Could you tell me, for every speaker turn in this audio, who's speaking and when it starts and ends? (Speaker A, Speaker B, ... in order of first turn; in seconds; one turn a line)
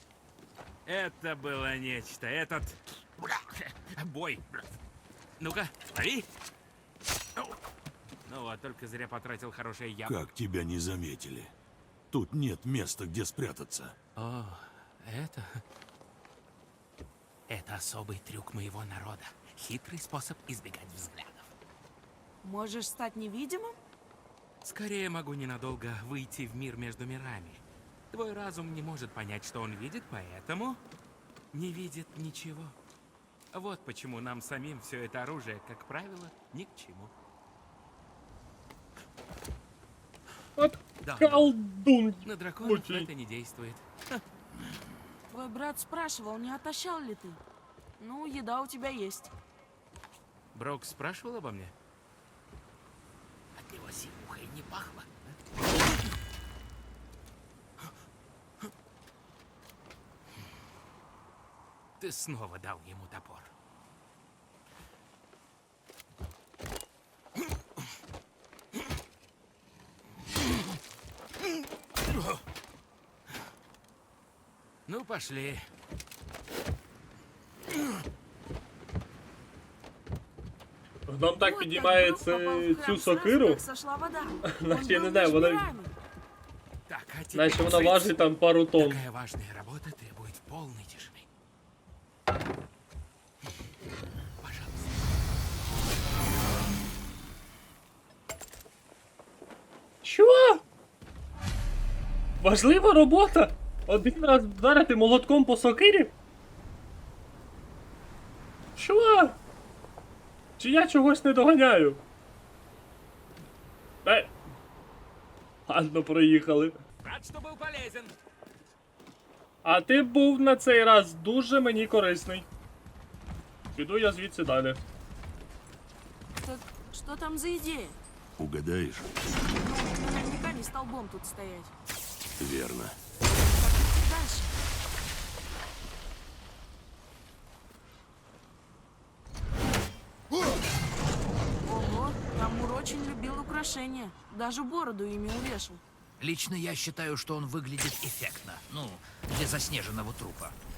Speaker A: 0.8-4.7
Speaker A: 5.4-6.3
Speaker A: 8.2-10.2
Speaker B: 10.1-11.5
Speaker B: 12.1-13.9
Speaker A: 14.2-15.6
Speaker A: 17.5-21.5
Speaker C: 22.4-23.7
Speaker A: 24.6-30.8
Speaker A: 31.5-32.7
Speaker A: 33.5-37.1
Speaker D: 40.6-43.1
Speaker A: 41.0-41.5
Speaker A: 42.2-44.2
Speaker C: 45.3-47.4
Speaker C: 48.0-49.3
Speaker A: 50.5-51.7
Speaker A: 53.5-55.4
Speaker A: 62.0-63.5
Speaker A: 72.1-72.4
Speaker A: 74.8-75.7
Speaker D: 81.1-83.6
Speaker C: 81.4-85.9
Speaker D: 84.4-85.7
Speaker A: 86.9-88.2
Speaker D: 87.3-89.0
Speaker A: 88.8-91.2
Speaker A: 94.4-95.0
Speaker D: 100.0-100.6
Speaker D: 102.4-106.1
Speaker D: 108.8-109.4
Speaker D: 110.6-112.0
Speaker D: 114.0-114.3
Speaker D: 115.7-116.8
Speaker A: 117.0-118.1
Speaker D: 119.6-122.5
Speaker D: 123.7-124.8
Speaker C: 126.4-128.0
Speaker B: 128.4-129.1
Speaker C: 129.6-131.7
Speaker B: 132.4-132.9
Speaker C: 133.5-134.5
Speaker C: 141.7-145.8
Speaker E: 146.2-150.6